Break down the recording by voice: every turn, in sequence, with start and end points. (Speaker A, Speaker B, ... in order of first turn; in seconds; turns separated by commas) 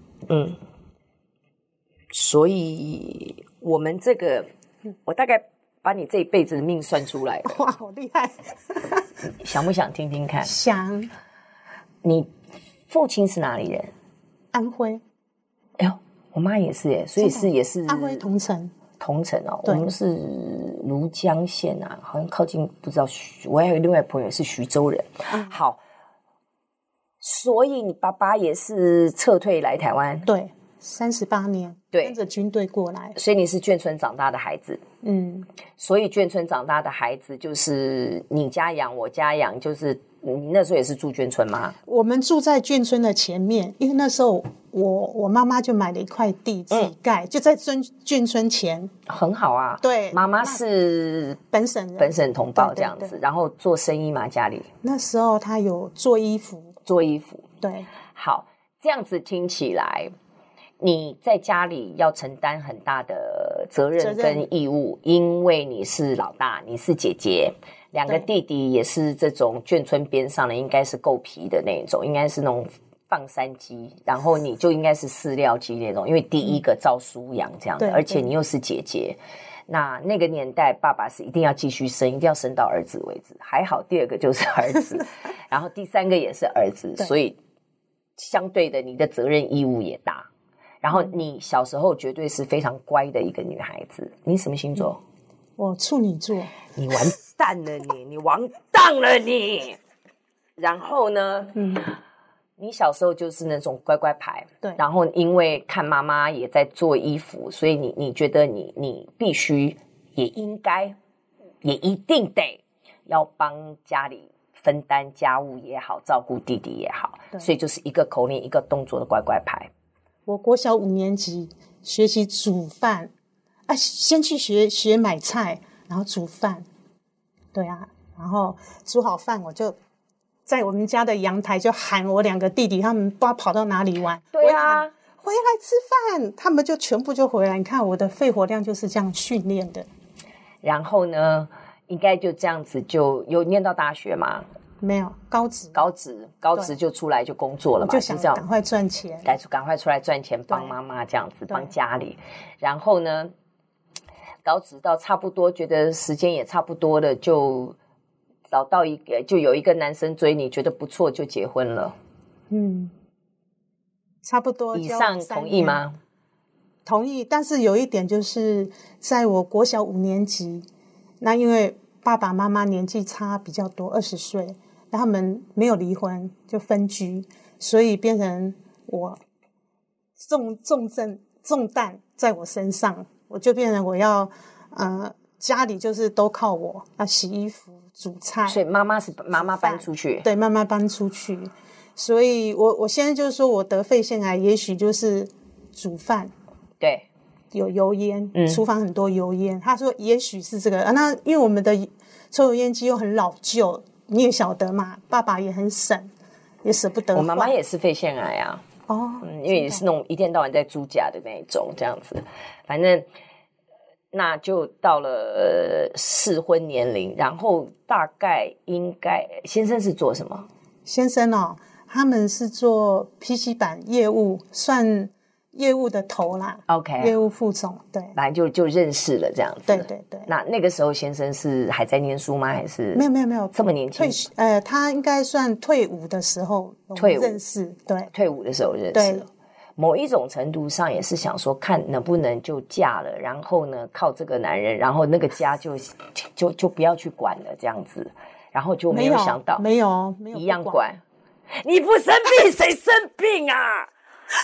Speaker A: 0.3-0.6, Speaker A: 2.1-4.5, Speaker A: 5.1-7.6, Speaker B: 7.5-9.0, Speaker A: 9.3-10.5, Speaker B: 10.4-11.1, Speaker A: 12.0-12.3, Speaker A: 12.9-13.9, Speaker B: 14.5-15.0, Speaker A: 15.8-18.2, Speaker B: 17.2-18.7, Speaker A: 19.0-25.8, Speaker A: 27.2-30.3, Speaker B: 30.3-33.1, Speaker A: 33.1-34.8, Speaker B: 35.0-35.5, Speaker A: 35.8-41.8, Speaker B: 41.9-48.9, Speaker A: 49.1-51.4, Speaker B: 49.8-50.6, Speaker B: 51.5-53.2, Speaker A: 52.0-54.7, Speaker B: 54.8-56.8, Speaker A: 56.9-57.4, Speaker B: 57.6-57.9, Speaker A: 58.1-60.1, Speaker A: 60.8-87.4, Speaker B: 64.0-64.5, Speaker B: 77.8-78.3, Speaker A: 88.2-90.3, Speaker A: 90.8-95.0, Speaker B: 95.6-96.5, Speaker A: 96.7-99.8, Speaker A: 100.6-101.8, Speaker B: 101.6-101.8, Speaker A: 102.6-111.0, Speaker A: 111.6-119.7, Speaker B: 120.3-123.1, Speaker B: 123.7-126.7, Speaker B: 127.5-129.8, Speaker B: 130.5-139.9, Speaker A: 134.3-134.9, Speaker A: 140.6-144.5, Speaker B: 144.8-145.8, Speaker A: 145.7-148.4, Speaker B: 147.8-149.3, Speaker A: 149.2-153.3, Speaker B: 150.5-150.8, Speaker B: 151.5-151.7, Speaker A: 154.4-157.8, Speaker A: 158.5-162.0, Speaker B: 162.5-162.9, Speaker B: 164.2-165.8, Speaker A: 164.7-166.0, Speaker B: 166.9-170.7, Speaker B: 171.2-179.2, Speaker B: 180.2-188.6, Speaker A: 188.5-190.3, Speaker B: 189.3-196.3, Speaker A: 196.8-197.1, Speaker B: 197.5-206.1, Speaker A: 198.3-198.6, Speaker B: 206.6-207.6, Speaker A: 207.1-208.6, Speaker B: 208.9-209.8, Speaker A: 209.2-213.1, Speaker A: 214.1-220.5, Speaker B: 220.9-228.2, Speaker A: 226.7-227.2, Speaker A: 228.2-234.3, Speaker B: 229.7-230.3, Speaker B: 232.9-238.1, Speaker A: 237.0-237.4, Speaker A: 238.1-249.7, Speaker B: 238.9-239.3, Speaker B: 248.9-250.9, Speaker A: 250.3-251.0, Speaker A: 251.6-253.9